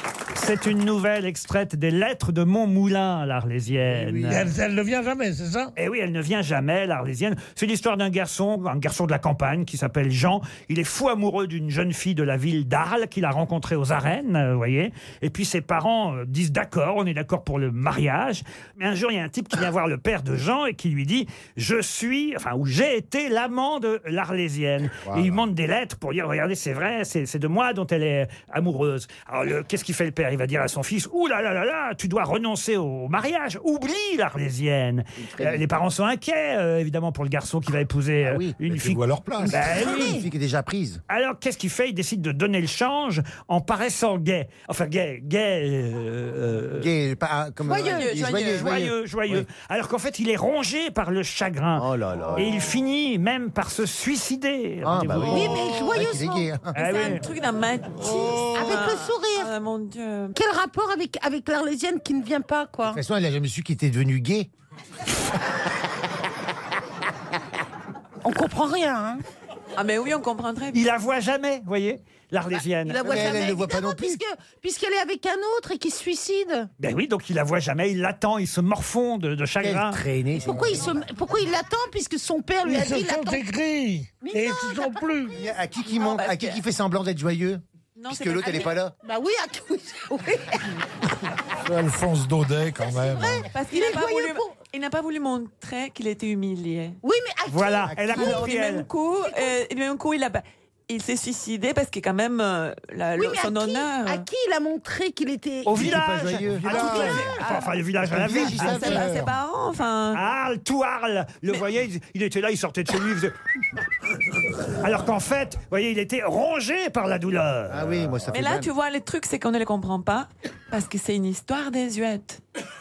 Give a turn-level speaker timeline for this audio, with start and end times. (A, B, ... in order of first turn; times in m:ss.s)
0:00.3-0:04.5 A
0:04.3-0:05.7 B
0:05.8-0:40.2 A
0:25.0-0:25.4 C
0:35.4-0:35.6 D
0:38.2-0:41.0 D
0:38.7-0:39.8 C
0:39.8-0:40.2 E
0:41.1-0:46.9 A
0:46.8-0:49.4 D
0:47.6-0:48.1 E
0:47.8-0:48.7 F
0:48.5-0:55.6 A
0:51.8-0:52.5 D
0:54.8-0:56.7 D
0:55.1-0:56.5 E
0:56.7-1:00.3 F
0:56.8-0:57.2 A
0:58.0-0:59.5 E
1:00.3-1:03.0 E
1:02.9-1:04.5 D
1:08.2-1:09.2 E
1:09.8-1:10.8 F
1:10.7-1:13.1 A
1:12.8-1:16.7 E
1:13.0-1:14.2 D
1:16.8-1:20.0 A
1:19.6-1:20.9 D
1:20.4-1:23.4 E
1:22.6-1:25.3 B
1:24.2-1:25.0 E
1:25.3-1:28.9 D
1:26.1-1:26.6 F
1:28.0-1:28.8 F
1:29.0-1:30.7 E
1:31.6-1:33.4 C
1:32.8-1:34.5 E
1:33.5-1:37.0 F
1:37.0-1:38.7 E
1:37.5-1:38.9 A
1:37.9-1:38.4 D
1:38.1-1:44.3 F
1:39.2-1:39.6 E
1:43.1-1:46.0 E
1:45.6-1:49.0 A
1:45.7-1:47.3 D
1:46.4-1:47.3 C
1:46.7-1:47.6 E
1:47.3-1:47.7 F
1:48.0-1:49.1 D
1:48.1-1:49.3 C
1:48.4-1:50.2 F
1:50.1-1:53.3 A
1:54.8-1:58.1 A
1:57.7-1:58.7 D
1:58.3-2:02.4 F